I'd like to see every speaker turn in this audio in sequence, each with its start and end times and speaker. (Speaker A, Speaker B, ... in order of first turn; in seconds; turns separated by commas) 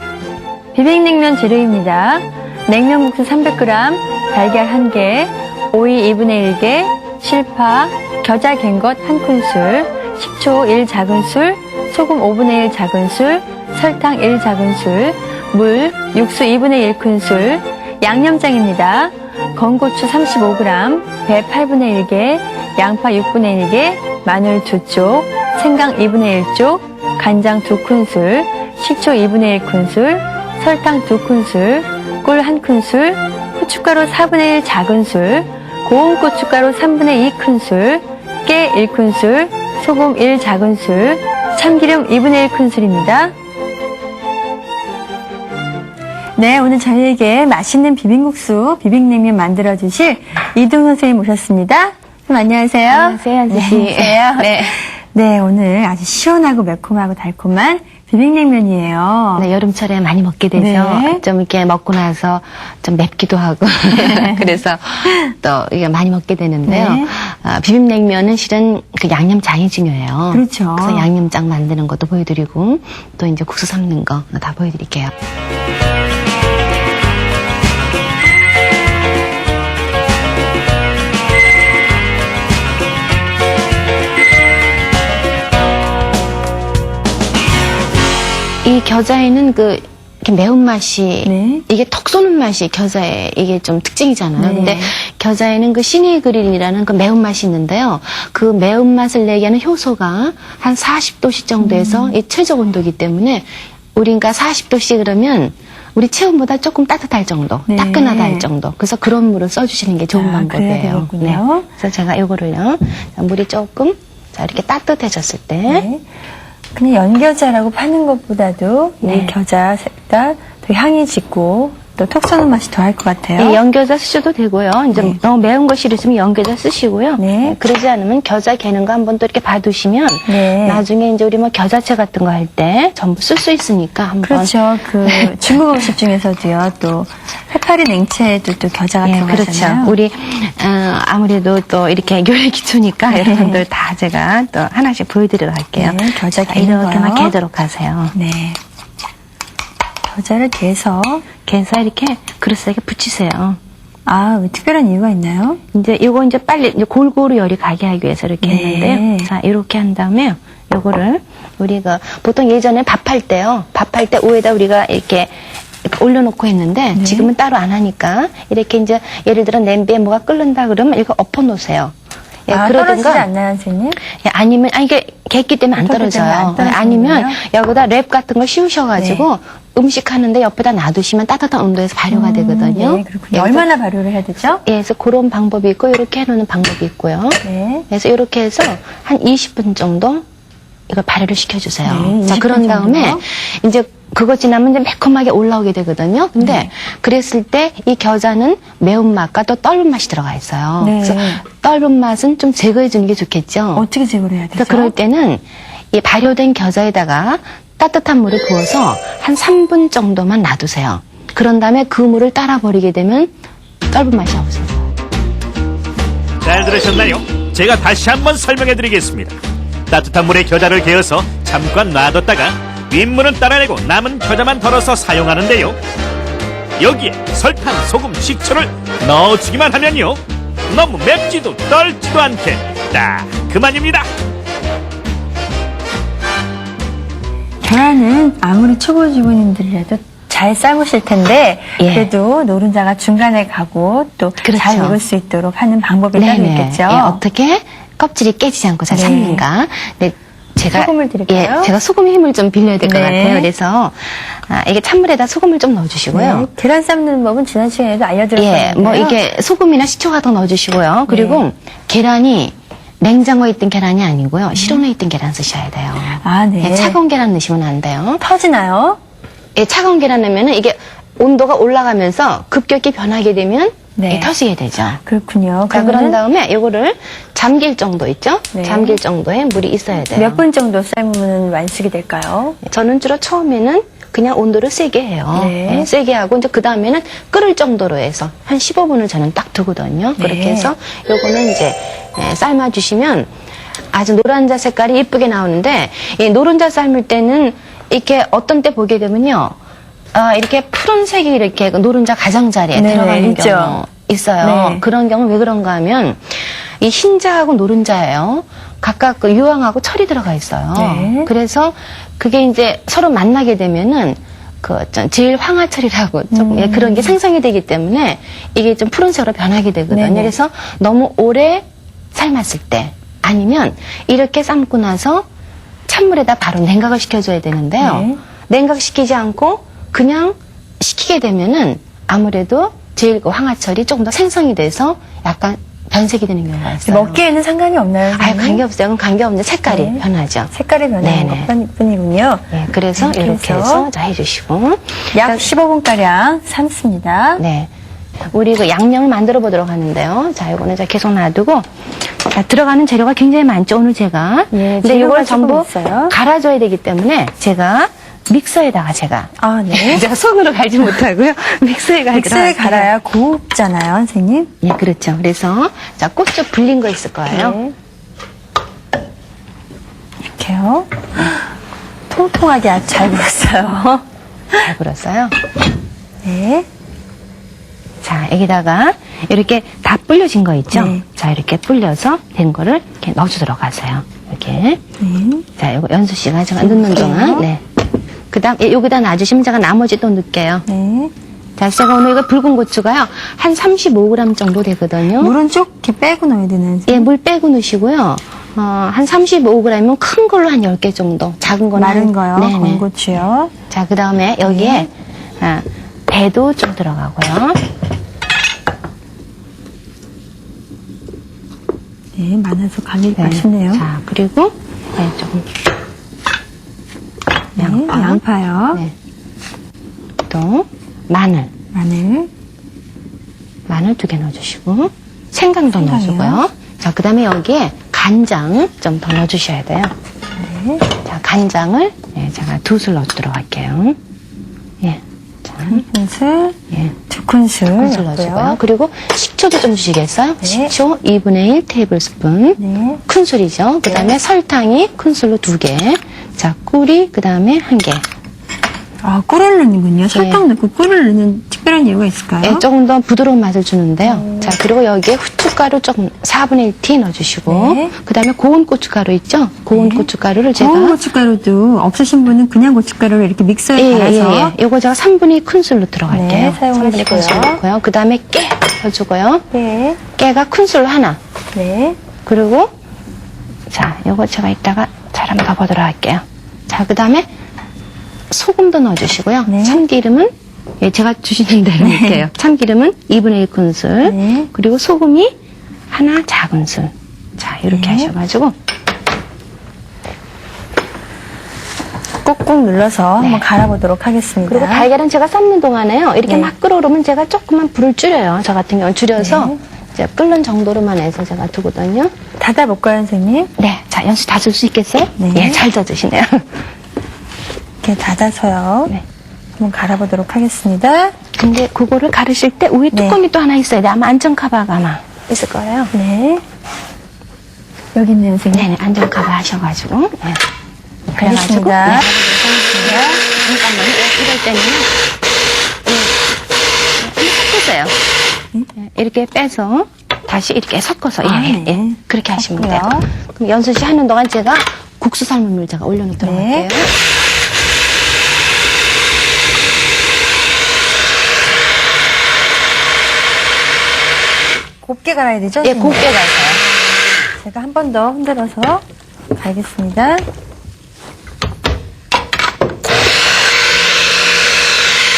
Speaker A: 0.7-43.3, Speaker A: 46.4-59.5, Speaker B: 52.9-54.8, Speaker B: 59.4-75.1, Speaker A: 60.5-61.2, Speaker A: 63.9-64.6, Speaker A: 66.6-67.1, Speaker A: 70.3-71.1, Speaker B: 88.6-115.9, Speaker A: 91.2-91.6, Speaker A: 94.4-94.9, Speaker A: 101.6-102.2, Speaker A: 107.7-108.5, Speaker A: 110.1-111.7, Speaker A: 115.7-116.0, Speaker A: 116.7-123.6, Speaker B: 119.0-119.3, Speaker B: 123.4-135.9, Speaker A: 124.9-125.2, Speaker A: 127.2-127.6, Speaker A: 130.3-130.8, Speaker A: 134.2-139.9, Speaker B: 139.0-148.1, Speaker A: 143.1-143.6, Speaker A: 145.8-147.3, Speaker A: 148.1-148.6, Speaker A: 150.0-151.2, Speaker B: 151.4-153.6, Speaker A: 154.1-155.6, Speaker B: 155.7-165.3, Speaker A: 158.4-159.3, Speaker B: 165.8-171.9, Speaker A: 166.9-167.3, Speaker B: 172.5-173.3, Speaker A: 172.5-174.0, Speaker B: 174.1-183.7, Speaker A: 175.8-177.4, Speaker A: 179.0-179.2, Speaker A: 182.1-184.6, Speaker B: 184.6-190.2, Speaker A: 187.4-187.8, Speaker B: 190.9-203.8, Speaker A: 191.8-193.2, Speaker A: 196.4-196.7, Speaker A: 200.8-201.4, Speaker A: 203.7-204.9, Speaker B: 204.6-213.3, Speaker B: 213.9-214.9, Speaker C: 216.4-219.3, Speaker C: 219.9-225.8, Speaker C: 226.8-234.1, Speaker A: 237.6-247.2, Speaker B: 241.8-242.1, Speaker B: 244.4-245.0, Speaker B: 246.1-256.5, Speaker A: 248.9-249.4, Speaker A: 250.7-251.7, Speaker A: 252.8-253.5, Speaker A: 256.1-259.2, Speaker B: 258.4-268.2, Speaker A: 261.1-261.4, Speaker A: 264.6-264.8, Speaker A: 266.1-267.0, Speaker A: 268.2-269.0, Speaker B: 269.6-275.0, Speaker A: 273.9-274.3, Speaker A: 275.0-276.2, Speaker B: 275.7-280.4, Speaker A: 278.5-279.0, Speaker A: 280.1-282.6, Speaker B: 282.6-293.3, Speaker A: 285.3-285.9, Speaker A: 290.2-290.7, Speaker B: 293.9-299.6, Speaker B: 300.1-325.3, Speaker A: 302.7-303.8, Speaker A: 304.4-304.8, Speaker A: 310.7-311.3, Speaker A: 316.3-317.1, Speaker A: 319.9-320.3, Speaker B: 325.9-337.2, Speaker A: 327.8-328.2, Speaker A: 336.8-338.6, Speaker B: 338.1-341.5, Speaker A: 339.7-343.9, Speaker B: 342.5-345.4, Speaker A: 345.1-347.4, Speaker B: 347.4-347.7, Speaker B: 348.3-362.9, Speaker A: 354.5-356.1, Speaker A: 359.4-360.1, Speaker A: 362.1-364.5, Speaker B: 364.6-367.6, Speaker A: 367.3-367.7, Speaker A: 370.2-371.5, Speaker A: 372.1-374.7, Speaker B: 374.6-375.4, Speaker A: 376.2-376.7, Speaker B: 378.0-384.8, Speaker A: 380.7-381.0, Speaker A: 385.0-385.4, Speaker B: 385.6-387.6, Speaker A: 386.6-387.4, Speaker B: 388.3-390.7, Speaker A: 390.7-391.1, Speaker B: 391.6-395.4, Speaker A: 395.2-397.1, Speaker B: 396.9-402.8, Speaker A: 401.7-403.5, Speaker B: 403.7-407.6, Speaker A: 404.4-404.9, Speaker A: 412.1-413.9, Speaker B: 413.1-415.5, Speaker A: 417.6-418.8, Speaker B: 417.6-418.2, Speaker B: 420.3-421.5, Speaker A: 421.7-422.3, Speaker B: 423.7-429.9, Speaker A: 425.7-426.4, Speaker A: 430.4-430.8, Speaker B: 430.9-434.0, Speaker B: 434.8-435.8, Speaker A: 435.7-438.6, Speaker B: 437.8-448.0, Speaker A: 440.4-440.7, Speaker A: 442.6-443.0, Speaker A: 449.0-452.6, Speaker B: 450.1-450.4, Speaker B: 452.4-461.0, Speaker A: 454.0-454.6, Speaker A: 457.5-457.9, Speaker A: 459.7-464.5, Speaker B: 463.8-469.5, Speaker A: 466.1-467.6, Speaker A: 469.5-470.0, Speaker B: 470.1-471.2, Speaker A: 471.5-472.0, Speaker B: 472.2-472.7, Speaker B: 473.7-477.3, Speaker B: 478.3-485.3, Speaker A: 479.4-479.8, Speaker A: 481.8-482.3, Speaker A: 484.0-484.5, Speaker B: 485.9-488.5, Speaker A: 487.7-488.1, Speaker A: 492.2-494.9, Speaker B: 493.2-493.5, Speaker B: 494.4-502.1, Speaker A: 496.2-496.5, Speaker A: 499.2-499.6, Speaker A: 502.4-503.5, Speaker B: 503.6-506.5, Speaker A: 505.2-505.6, Speaker A: 507.8-508.9, Speaker A: 509.6-511.1, Speaker B: 511.4-515.9, Speaker A: 512.9-513.2, Speaker A: 515.9-516.4, Speaker A: 517.9-518.7, Speaker B: 518.5-520.4, Speaker A: 521.1-522.1, Speaker B: 521.2-524.9, Speaker A: 522.7-523.2, Speaker B: 525.9-526.1, Speaker B: 527.0-528.0, Speaker B: 528.8-536.9, Speaker A: 531.2-533.1, Speaker A: 536.2-536.7, Speaker A: 544.8-546.0, Speaker B: 545.6-546.6, Speaker A: 547.4-548.8, Speaker A: 549.4-550.2